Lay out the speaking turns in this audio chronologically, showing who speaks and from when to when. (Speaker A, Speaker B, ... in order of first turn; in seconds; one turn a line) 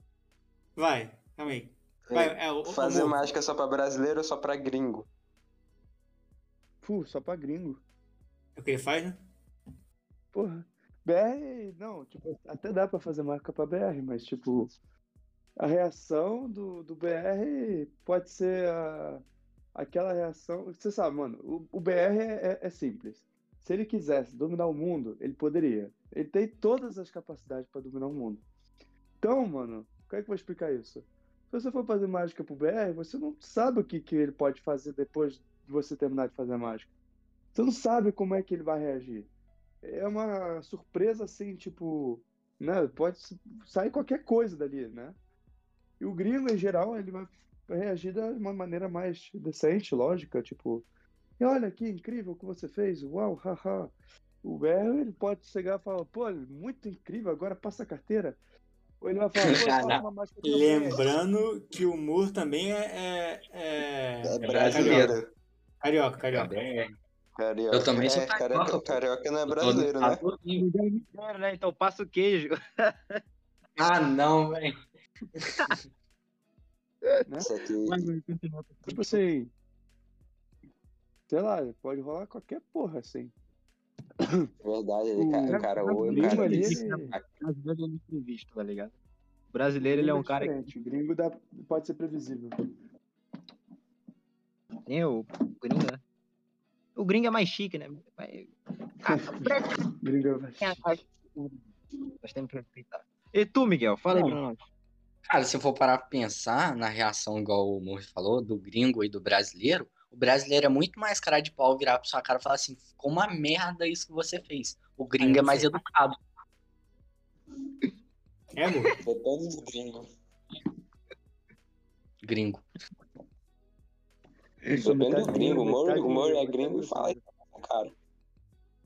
Speaker A: 0.8-3.2
Speaker B: 2.1-5.1
Speaker C: 6.8-7.8
Speaker A: 8.6-9.2
Speaker C: 10.3-14.7
Speaker C: 15.6-19.2
Speaker C: 19.7-28.4
Speaker C: 29.2-36.9
Speaker C: 37.5-39.3
Speaker C: 39.8-45.1
Speaker C: 46.0-50.9
Speaker C: 51.4-58.4
Speaker C: 59.0-61.0
Speaker D: 59.4-60.0
Speaker A: 60.4-65.2
Speaker B: 64.2-65.3
Speaker D: 64.4-65.2
Speaker A: 65.8-66.5
Speaker D: 66.3-66.9
Speaker B: 67.4-70.2
Speaker D: 67.7-70.7
Speaker E: 70.5-73.2
Speaker D: 73.8-74.7
Speaker D: 75.4-75.8
Speaker B: 77.4-78.1
Speaker E: 77.8-79.2
Speaker C: 78.9-79.5
Speaker C: 81.3-83.3
Speaker C: 84.2-84.5
Speaker B: 84.6-87.3
Speaker C: 85.2-87.1
Speaker E: 85.5-88.9
Speaker E: 89.5-90.7
Speaker C: 89.8-92.7
Speaker E: 94.8-96.0
Speaker E: 97.0-99.8
Speaker C: 99.1-100.9
Speaker E: 100.6-101.6
Speaker E: 102.2-104.6
Speaker D: 104.1-104.4
Speaker D: 105.3-116.2
Speaker A: 115.2-115.7
Speaker A: 118.5-118.9
Speaker B: 119.0-120.0
Speaker D: 122.2-122.6
Speaker C: 124.7-127.2
Speaker B: 124.8-127.9